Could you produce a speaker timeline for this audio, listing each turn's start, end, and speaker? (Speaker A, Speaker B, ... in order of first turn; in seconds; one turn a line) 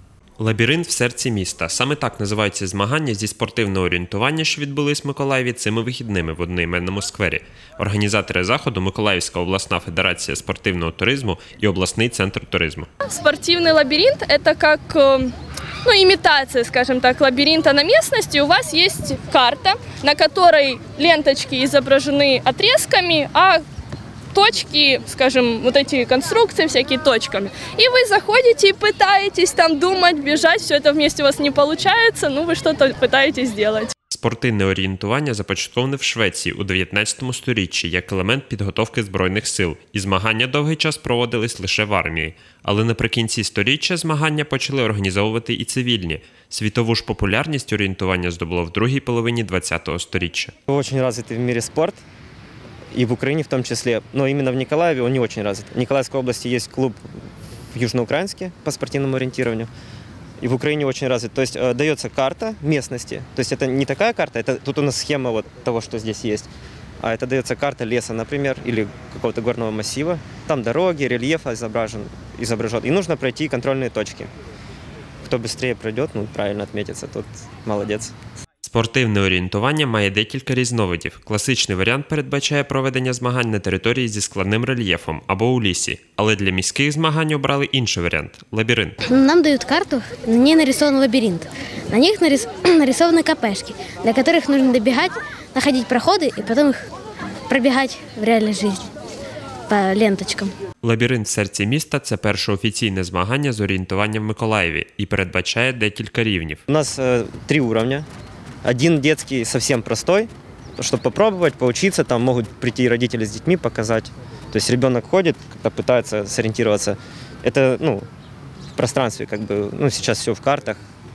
Speaker A: 0.4-12.9
Speaker B: 13.0-15.3
Speaker B: 15.8-23.6
Speaker B: 24.3-33.9
Speaker A: 34.1-50.5
Speaker C: 50.7-52.0
Speaker C: 52.9-57.0
Speaker C: 57.7-59.7
Speaker C: 60.4-66.5
Speaker C: 67.0-74.3
Speaker C: 75.2-78.1
Speaker A: 78.6-89.0
Speaker D: 89.0-96.9
Speaker D: 97.5-98.9
Speaker D: 99.7-100.5
Speaker A: 100.8-106.6
Speaker C: 106.7-108.1
Speaker C: 108.6-118.0
Speaker C: 118.8-120.8